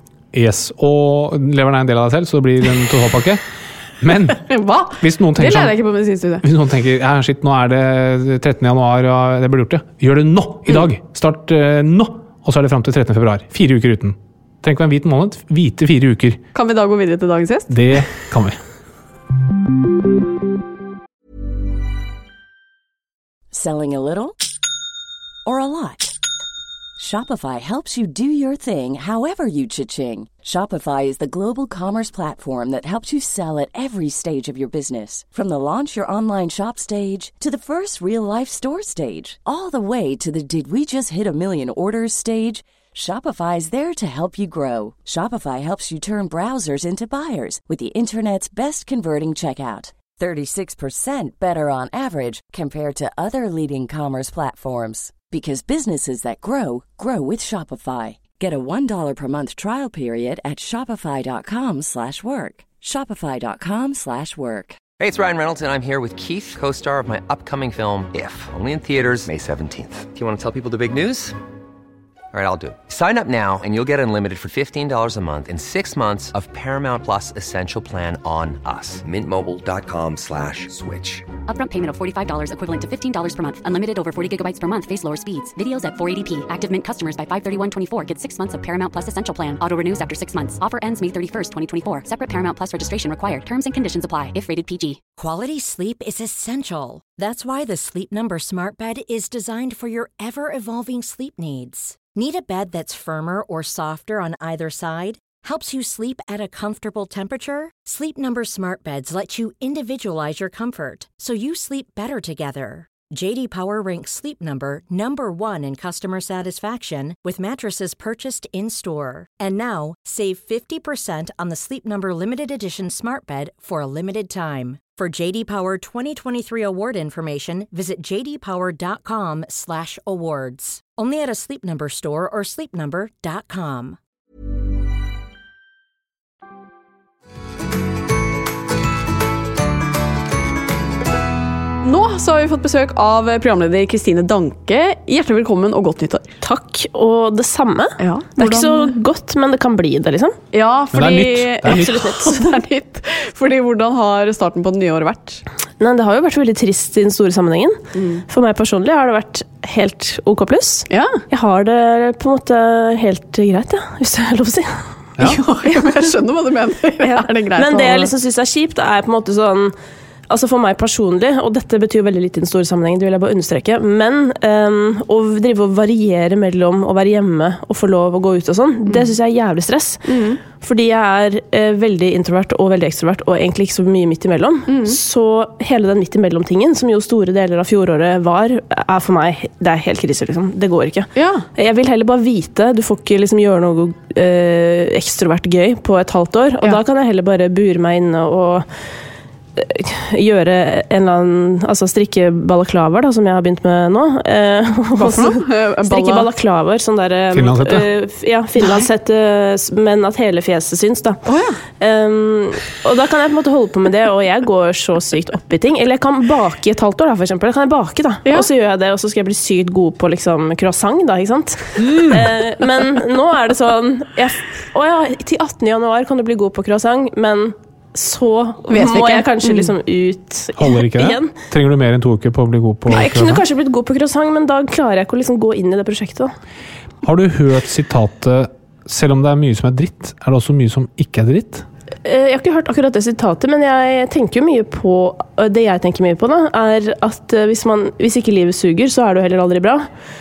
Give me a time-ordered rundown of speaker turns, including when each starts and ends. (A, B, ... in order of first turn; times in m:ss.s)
0:00.3-0:03.4 A
0:04.0-0:04.4 A
0:04.4-0:06.4 B
0:05.0-0:05.8 A
0:06.4-0:16.4 A
0:16.5-0:18.0 B
0:17.7-0:18.6 A
0:23.5-0:24.4 C
0:25.4-0:26.2 C
0:27.0-1:04.8 C
1:05.0-1:11.4 D
1:12.3-1:21.2 D
1:21.5-1:35.0 E
1:35.2-2:14.0 F
2:21.8-2:26.3 B
2:26.4-2:30.4 G
2:28.0-2:28.9 B
2:30.5-2:35.4 B
2:30.9-2:32.1 A
2:31.7-2:32.6 G
2:35.8-2:46.0 G
2:37.9-2:38.2 B
2:40.9-2:41.2 B
2:45.2-2:48.1 B
2:47.0-2:49.8 G
2:50.3-3:18.7 G
2:58.9-2:59.1 B
3:00.1-3:00.4 B
3:04.7-3:05.0 B
3:11.1-3:11.5 B
3:19.6-3:31.2 G
3:24.9-3:26.3 B
3:27.3-3:27.9 A
3:28.6-3:28.8 B
3:31.3-3:31.6 B
3:31.8-3:51.3 G
3:41.8-3:42.3 A
3:48.7-3:49.7 B
3:50.6-3:53.4 A
3:52.9-3:56.3 G
3:57.0-4:01.6 A
4:02.0-4:09.9 G